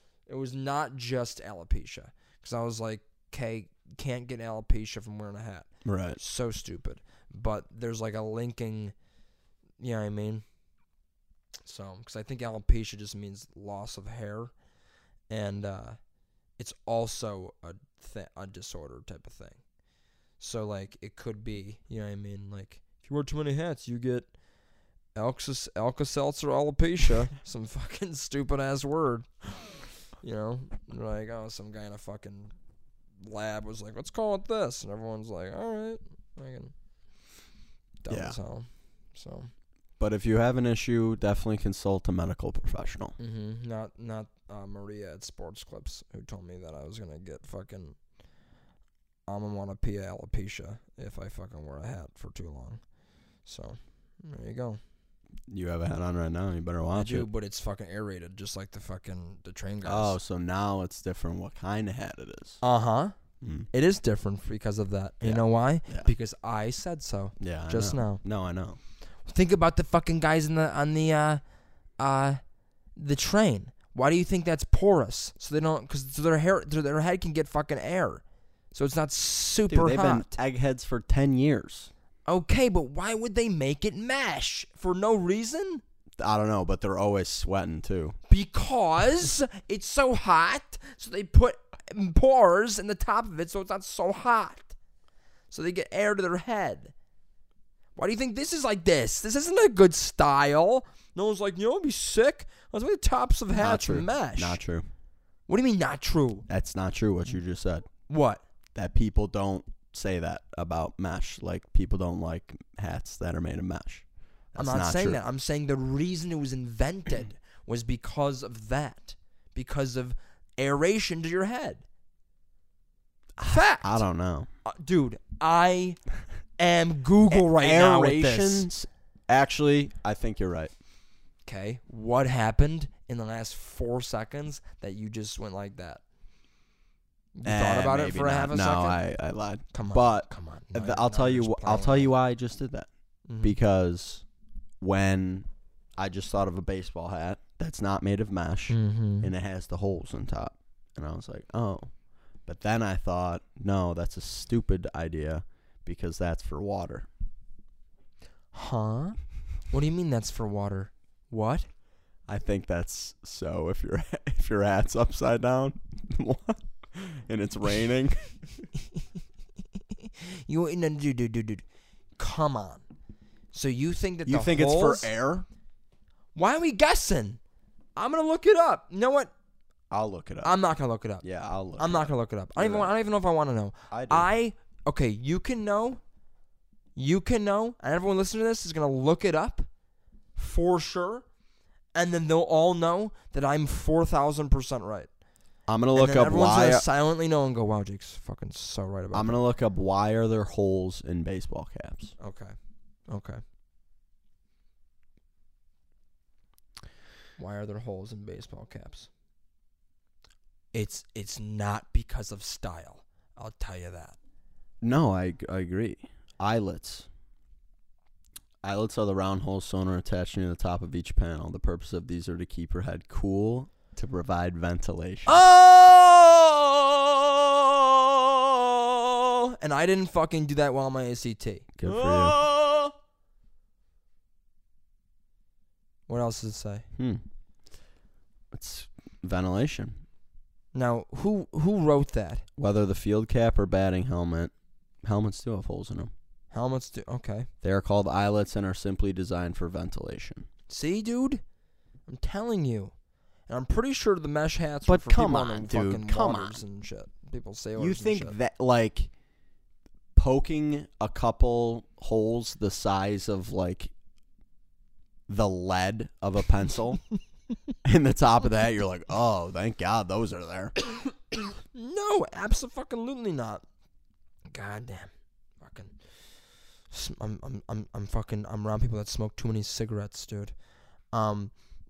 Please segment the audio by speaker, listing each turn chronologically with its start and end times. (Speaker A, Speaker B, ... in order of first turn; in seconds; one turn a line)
Speaker A: 0.3-8.9
Speaker B: 5.8-6.2
Speaker A: 9.8-10.4
Speaker A: 11.7-14.5
Speaker A: 15.3-16.0
Speaker A: 16.6-19.6
Speaker A: 20.4-24.3
Speaker A: 25.2-32.5
Speaker A: 33.2-36.7
Speaker A: 38.0-39.5
Speaker B: 38.1-38.4
Speaker B: 40.0-43.1
Speaker A: 43.2-48.0
Speaker A: 49.3-52.8
Speaker A: 53.5-54.8
Speaker B: 55.5-57.3
Speaker A: 57.0-60.2
Speaker B: 59.9-62.6
Speaker A: 62.6-63.1
Speaker B: 63.4-63.7
Speaker A: 63.7-68.2
Speaker B: 65.2-66.1
Speaker B: 67.4-68.8
Speaker A: 69.3-71.4
Speaker A: 72.0-72.4
Speaker A: 73.0-78.2
Speaker A: 78.7-80.3
Speaker B: 79.7-81.9
Speaker A: 82.3-85.8
Speaker B: 86.2-88.2
Speaker A: 88.3-94.7
Speaker A: 95.5-96.9
Speaker A: 98.0-104.6
Speaker B: 103.6-104.9
Speaker A: 105.5-106.5
Speaker B: 106.5-107.9
Speaker A: 108.1-108.4
Speaker B: 108.8-115.2
Speaker A: 114.6-121.8
Speaker B: 123.4-124.5
Speaker A: 123.4-124.0
Speaker A: 124.7-126.0
Speaker A: 126.6-128.7
Speaker B: 127.3-130.7
Speaker A: 131.5-136.0
Speaker A: 137.4-139.0
Speaker B: 137.4-142.9
Speaker A: 139.7-142.1
Speaker A: 143.3-143.6
Speaker B: 143.4-144.2
Speaker B: 144.8-151.9
Speaker A: 148.7-149.3
Speaker B: 152.5-157.1
Speaker A: 158.5-159.2
Speaker A: 159.7-161.7
Speaker B: 162.3-168.2
Speaker A: 170.0-171.6
Speaker A: 172.2-172.8
Speaker A: 173.5-175.1
Speaker B: 174.3-175.5
Speaker A: 176.3-177.4
Speaker A: 178.0-179.3
Speaker B: 179.9-180.6
Speaker A: 180.4-181.2
Speaker B: 181.2-182.9
Speaker A: 181.8-186.0
Speaker B: 183.9-184.3
Speaker A: 187.0-189.7
Speaker A: 190.4-191.2
Speaker A: 191.9-195.1
Speaker B: 195.7-196.8
Speaker A: 195.9-199.4
Speaker B: 199.1-202.1
Speaker A: 202.2-202.6
Speaker A: 203.1-203.4
Speaker A: 207.4-209.1
Speaker A: 210.7-214.2
Speaker B: 214.8-217.1
Speaker B: 218.6-225.4
Speaker A: 225.3-232.9
Speaker B: 231.8-232.4
Speaker A: 236.1-236.8
Speaker B: 237.0-237.2
Speaker B: 238.5-240.0
Speaker A: 240.7-242.4
Speaker B: 242.6-244.5
Speaker B: 245.0-246.1
Speaker A: 246.5-247.5
Speaker B: 247.6-250.5
Speaker A: 250.7-251.4
Speaker A: 252.1-252.9
Speaker A: 253.5-258.4
Speaker B: 254.9-256.6
Speaker B: 257.8-259.1
Speaker B: 260.2-263.9
Speaker B: 265.3-267.0
Speaker B: 267.8-270.8
Speaker A: 271.7-273.6
Speaker A: 274.5-276.0
Speaker A: 276.9-280.5
Speaker A: 281.1-281.5